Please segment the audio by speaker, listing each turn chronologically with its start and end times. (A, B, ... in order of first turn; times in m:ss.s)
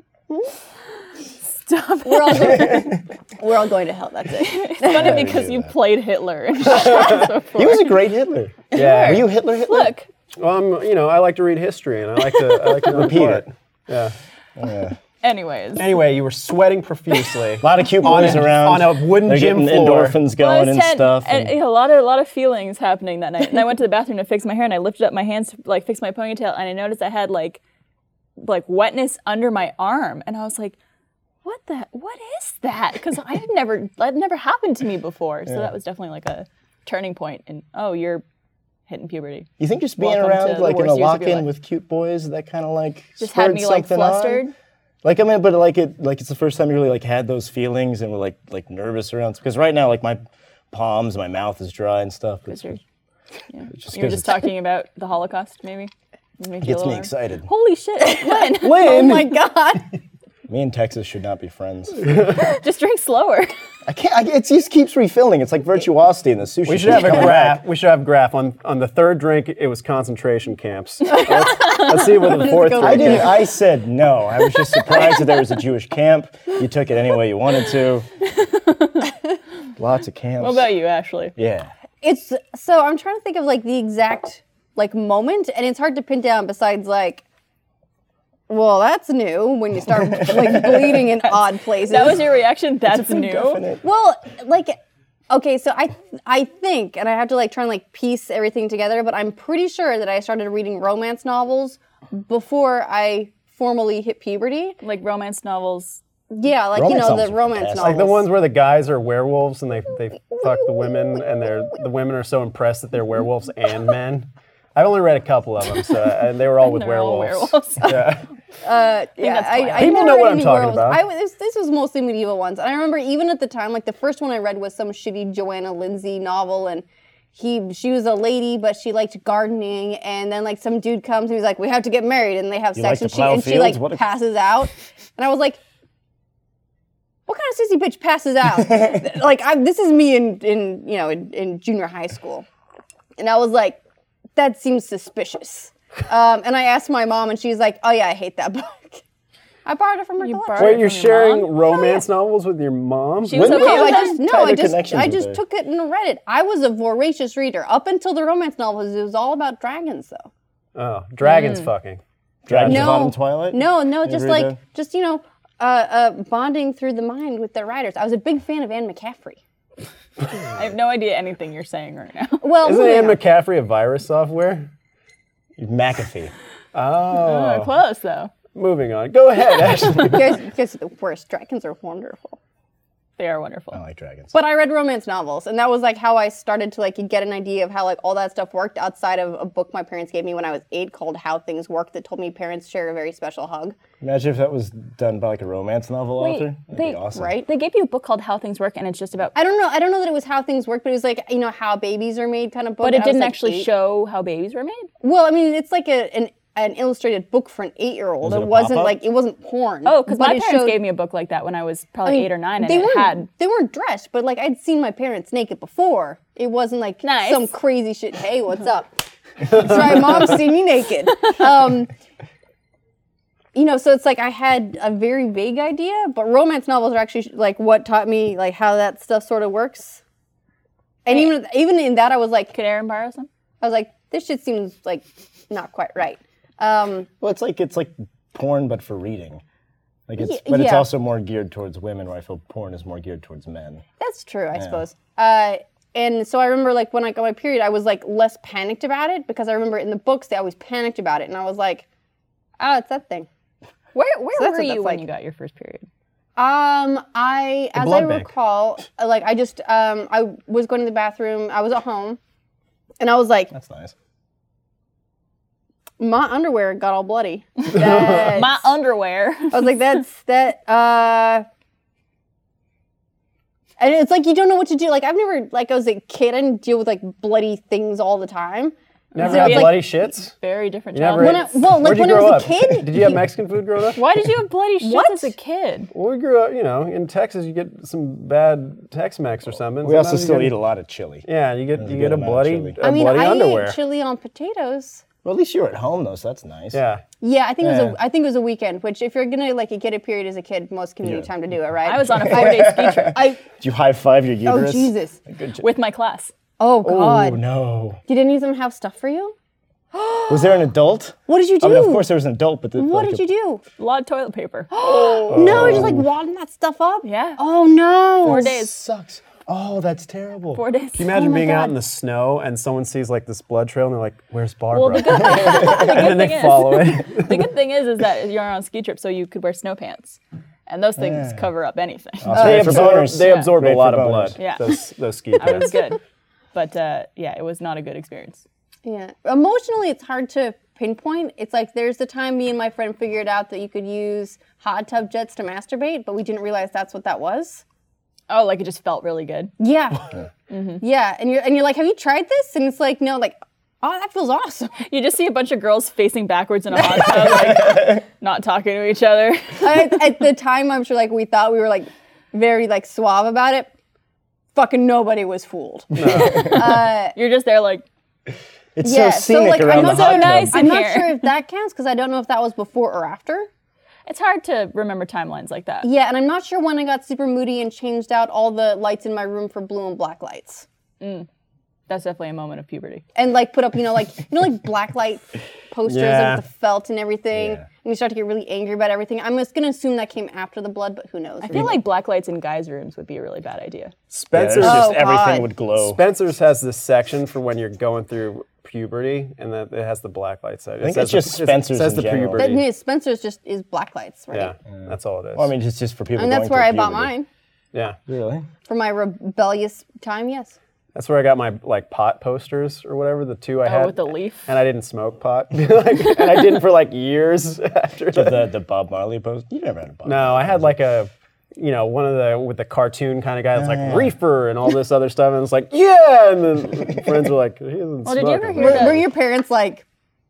0:01.5-0:02.9 A
0:02.0-0:05.3 B
0:04.4-0:08.0 A
0:04.9-0:05.7 C
0:06.7-0:07.3 D
0:07.5-0:09.9 C
0:08.7-0:10.1 A
0:08.7-0:09.3 D
0:10.4-0:14.1 D
0:12.9-0:13.5 C
0:14.6-0:15.0 C
0:15.2-0:16.0 A
0:15.8-0:20.2 D
0:17.6-0:21.5 C
0:20.4-0:27.6 A
0:28.4-0:30.8 A
0:31.4-0:38.2 A
0:38.9-0:41.5 A
0:39.6-0:44.4 C
0:43.2-0:44.5 A
0:45.0-0:50.2 C
0:50.7-0:52.8 C
0:52.5-0:52.8 A
0:53.5-0:59.0 A
0:53.7-0:54.4 C
0:56.6-0:57.5 C
0:58.0-1:00.0 B
0:58.6-0:59.4 D
1:00.5-1:02.0 C
1:02.3-1:03.5 A
1:03.9-1:07.6 C
1:06.6-1:13.4 D
1:11.1-1:11.9 A
1:11.1-1:13.5 B
1:12.8-1:18.1 C
1:18.4-1:19.1 A
1:19.8-1:20.7 C
1:20.4-1:21.4 A
1:21.4-1:21.7 C
1:22.0-1:27.2 B
1:28.5-1:32.3 B
1:30.1-1:31.0 C
1:31.7-1:33.6 A
1:32.9-1:33.8 C
1:33.8-1:34.8 B
1:35.3-1:44.8 B
1:44.8-1:46.0 A
1:46.3-1:48.3 B
1:46.7-1:48.0 C
1:47.8-1:58.2 D
1:50.4-1:51.2 B
1:56.6-1:58.2 A
1:58.6-2:15.6 B
1:59.2-2:00.0 A
1:59.8-2:01.0 D
2:12.8-2:14.0 C
2:17.3-2:22.5 B
2:23.2-2:23.8 B
2:24.4-2:29.0 B
2:29.6-2:30.9 B
2:30.2-2:31.7 A
2:30.6-2:33.5 D
2:31.7-2:32.0 B
2:33.2-2:34.2 A
2:33.3-2:40.3 B
2:33.3-2:35.4 C
2:40.8-2:43.0 D
2:41.2-2:41.7 A
2:42.5-2:44.6 C
2:42.6-2:49.4 B
2:50.5-2:52.5 A
2:52.4-2:53.2 B
2:52.6-2:54.7 D
2:55.6-2:56.3 C
2:56.7-2:57.7 D
2:57.1-2:58.3 A
2:58.5-3:00.4 D
2:59.9-3:02.4 B
3:03.2-3:03.8 A
3:03.7-3:04.3 C
3:04.3-3:13.8 B
3:14.0-3:17.4 C
3:16.2-3:19.3 A
3:17.1-3:17.5 B
3:19.4-3:23.7 B
3:22.8-3:24.9 A
3:25.0-3:30.8 B
3:28.2-3:29.0 C
3:29.8-3:33.3 A
3:32.0-3:41.9 B
3:37.0-3:37.5 A
3:39.9-3:40.2 D
3:43.5-3:50.0 B
3:51.0-3:52.6 B
3:52.5-3:53.3 A
3:53.6-3:57.1 B
3:57.2-3:59.4 C
4:00.1-4:03.8 C
4:00.2-4:00.9 B
4:04.0-4:11.9 B
4:04.6-4:04.8 C
4:12.6-4:13.3 B
4:14.0-4:15.9 A
4:14.4-4:15.0 B
4:16.4-4:22.2 B
4:17.8-4:18.3 D
4:23.0-4:23.5 B
4:23.5-4:23.9 C
4:26.0-4:28.6 B
4:27.6-4:29.7 A
4:27.8-4:28.4 D
4:29.5-4:31.5 B
4:33.8-4:39.9 B
4:39.1-4:40.3 D
4:39.1-4:41.6 A
4:40.9-4:44.0 D
4:41.2-4:43.2 B
4:44.0-4:45.9 A
4:44.8-4:45.3 B
4:45.9-4:50.6 D
4:49.8-4:52.8 C
4:51.3-4:53.8 D
4:52.8-4:55.0 B
4:55.2-4:56.8 C
4:56.7-4:57.0 D
4:57.2-5:03.4 B
4:57.6-4:58.0 C
5:01.0-5:01.3 C
5:01.8-5:03.2 A
5:02.0-5:05.7 C
5:04.5-5:05.2 B
5:05.6-5:06.3 A
5:06.6-5:07.4 B
5:06.8-5:08.0 C
5:08.1-5:09.4 B
5:09.9-5:10.6 B
5:10.3-5:13.2 C
5:11.3-5:12.1 B
5:12.8-5:13.6 B
5:13.8-5:15.3 A
5:14.7-5:18.5 B
5:14.9-5:16.1 C
5:15.3-5:16.0 D
5:17.0-5:17.4 A
5:18.2-5:18.7 A
5:18.2-5:20.6 C
5:20.5-5:21.1 A
5:21.0-5:27.5 D
5:21.1-5:21.8 B
5:24.7-5:32.5 A
5:25.4-5:25.9 C
5:31.0-5:31.5 C
5:32.2-5:34.4 C
5:32.3-5:32.9 B
5:32.3-5:35.8 D
5:33.1-5:33.5 A
5:34.4-5:34.8 A
5:35.4-5:36.0 A
5:36.5-5:38.4 A
5:38.8-5:47.6 B
5:48.3-5:49.5 A
5:49.6-5:50.1 B
5:50.5-5:50.8 A
5:50.8-5:54.7 B
5:54.8-6:00.0 A
5:57.1-5:57.5 B
5:57.6-5:58.0 C
5:59.6-6:03.7 B
6:04.6-6:07.1 B
6:05.9-6:06.6 D
6:06.1-6:06.4 C
6:06.2-6:07.8 A
6:08.8-6:10.7 C
6:08.8-6:13.5 B
6:09.7-6:11.3 A
6:14.1-6:15.9 A
6:15.8-6:20.6 B
6:21.0-6:21.3 A
6:21.9-6:23.0 A
6:23.1-6:31.8 B
6:25.9-6:26.4 D
6:27.3-6:27.6 C
6:31.4-6:33.9 A
6:34.1-6:35.0 D
6:34.3-6:36.0 C
6:34.6-6:35.7 B
6:35.8-6:42.6 D
6:40.8-6:42.5 C
6:42.4-6:44.5 B
6:44.3-6:45.5 D
6:44.7-6:47.1 C
6:46.2-6:47.3 B
6:47.7-6:48.0 D
6:48.1-6:48.5 C
6:48.6-6:50.6 B
6:51.0-6:58.5 D
6:53.6-6:54.5 A
6:58.1-7:00.8 C
7:00.0-7:09.0 D
7:03.5-7:04.1 C
7:08.0-7:09.0 A
7:08.6-7:09.8 B